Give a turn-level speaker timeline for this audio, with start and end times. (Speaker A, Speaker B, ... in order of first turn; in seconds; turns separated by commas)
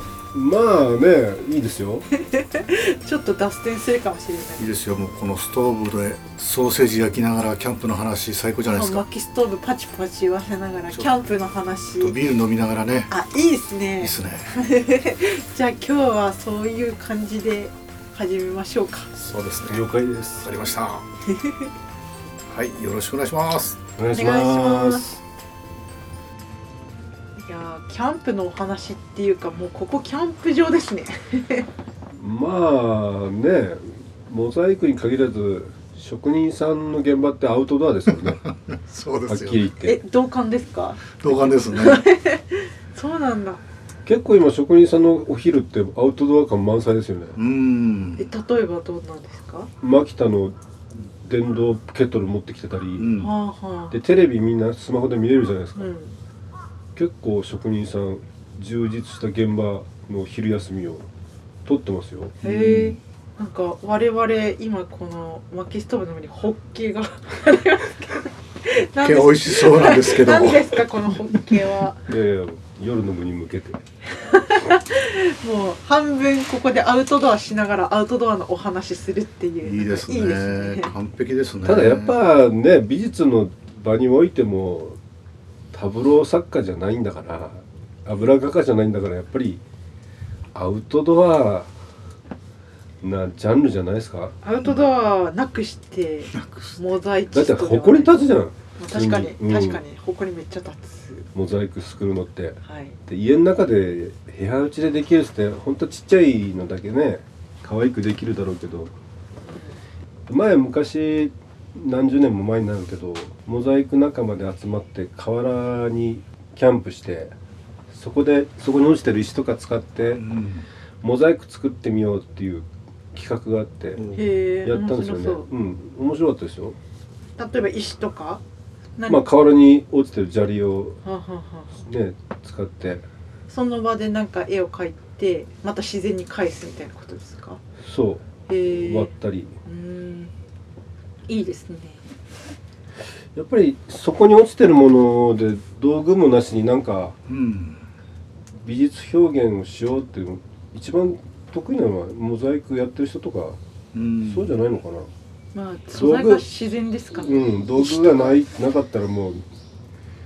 Speaker A: 0.3-2.1, Speaker B: 2.2-4.8, Speaker C: 4.6-9.0, Speaker B: 8.7-12.2, Speaker C: 12.0-13.1, Speaker B: 13.1-19.1, Speaker C: 14.0-14.5, Speaker C: 19.1-19.9, Speaker A: 19.7-20.5, Speaker C: 20.4-21.0, Speaker B: 21.3-21.7, Speaker C: 22.5-23.8, Speaker A: 24.0-25.2, Speaker B: 24.1-25.1, Speaker B: 27.4-31.7, Speaker A: 32.1-38.4, Speaker C: 38.1-39.6, Speaker A: 39.3-40.0, Speaker B: 39.8-43.6, Speaker C: 41.2-42.0, Speaker A: 44.0-47.4, Speaker C: 47.4-48.2, Speaker B: 48.2-49.7, Speaker A: 49.8-50.5, Speaker A: 51.2-53.1, Speaker C: 53.0-53.3, Speaker B: 53.2-54.0, Speaker A: 53.9-55.9, Speaker B: 55.8-56.1, Speaker A: 57.0-61.1, Speaker A: 61.6-62.4, Speaker C: 62.4-63.0, Speaker B: 62.4-72.0, Speaker C: 69.0-71.0, Speaker A: 72.1-73.8, Speaker B: 74.1-80.9, Speaker C: 79.6-82.2, Speaker A: 81.6-85.0, Speaker A: 85.7-89.6, Speaker A: 90.5-91.7, Speaker A: 93.0-94.3, Speaker B: 94.4-98.2, Speaker C: 96.3-96.8, Speaker A: 97.3-99.8, Speaker B: 98.8-101.2, Speaker A: 101.3-108.9, Speaker B: 102.6-103.0, Speaker A: 110.3-117.3, Speaker A: 117.9-120.2, Speaker C: 120.1-120.7, Speaker A: 121.0-124.1, Speaker C: 124.0-124.2, Speaker B: 124.1-125.5, Speaker A: 124.6-126.8, Speaker B: 127.4-128.4, Speaker B: 129.0-129.2, Speaker A: 129.1-131.0, Speaker B: 131.0-131.7, Speaker A: 131.7-133.0, Speaker B: 133.5-137.6, Speaker A: 137.8-139.5, Speaker B: 138.5-139.1, Speaker B: 139.6-140.3, Speaker B: 141.3-142.0, Speaker A: 143.3-147.2, Speaker C: 147.3-147.8, Speaker A: 148.6-153.6, Speaker C: 153.9-154.5, Speaker A: 154.2-155.1, Speaker B: 155.5-158.3, Speaker A: 155.9-156.4, Speaker A: 157.2-159.4